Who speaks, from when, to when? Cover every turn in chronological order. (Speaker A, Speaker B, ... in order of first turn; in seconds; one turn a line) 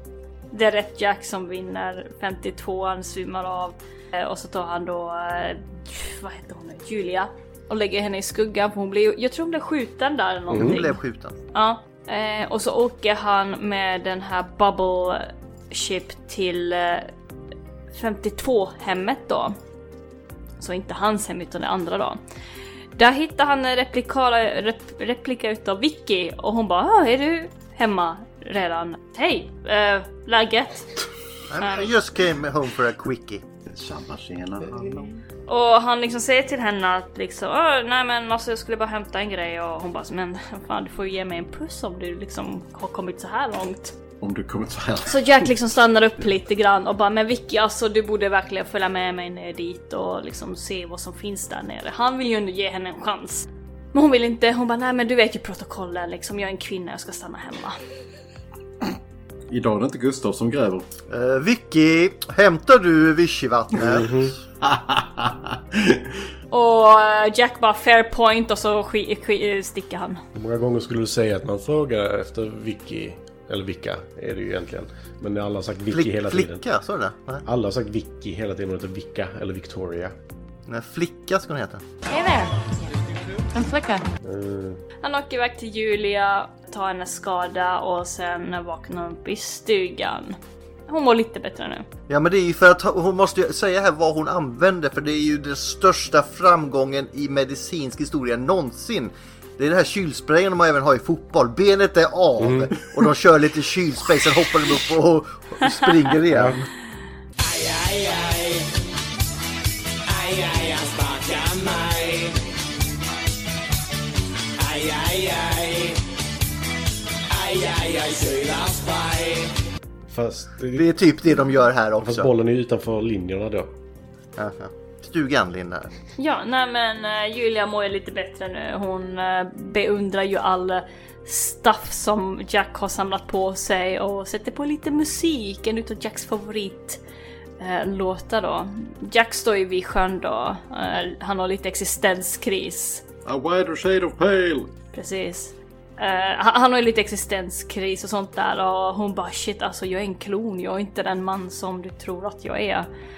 Speaker A: 0.5-11.0
Speaker B: 10.5-10.8
Speaker C: 10.5-11.3
Speaker A: 11.5-17.1
Speaker A: 17.9-19.6
Speaker A: 20.6-22.2
Speaker A: 22.9-30.9
Speaker C: 31.5-33.4
Speaker A: 31.6-31.9
Speaker D: 33.7-35.1
Speaker A: 35.5-43.9
Speaker D: 44.2-45.5
Speaker A: 45.1-57.8
Speaker D: 59.5-60.9
Speaker C: 61.1-64.2
Speaker B: 63.8-64.3
Speaker D: 64.6-66.1
Speaker A: 66.5-70.2
Speaker B: 70.3-76.6
Speaker C: 75.9-77.4
Speaker B: 77.4-80.1
Speaker C: 80.7-81.8
Speaker E: 83.6-84.0
Speaker B: 84.2-84.8
Speaker A: 85.0-90.4
Speaker A: 90.9-91.8
Speaker C: 92.1-106.7
Speaker B: 102.4-102.7
Speaker B: 106.3-106.6
Speaker E: 110.2-111.9
Speaker E: 117.5-119.0
Speaker B: 120.1-120.9
Speaker C: 120.7-122.3
Speaker B: 122.0-123.7
Speaker C: 124.4-125.9
Speaker A: 126.2-137.0
Speaker A: 137.6-143.0
Speaker D: 143.2-144.7
Speaker A: 144.9-152.9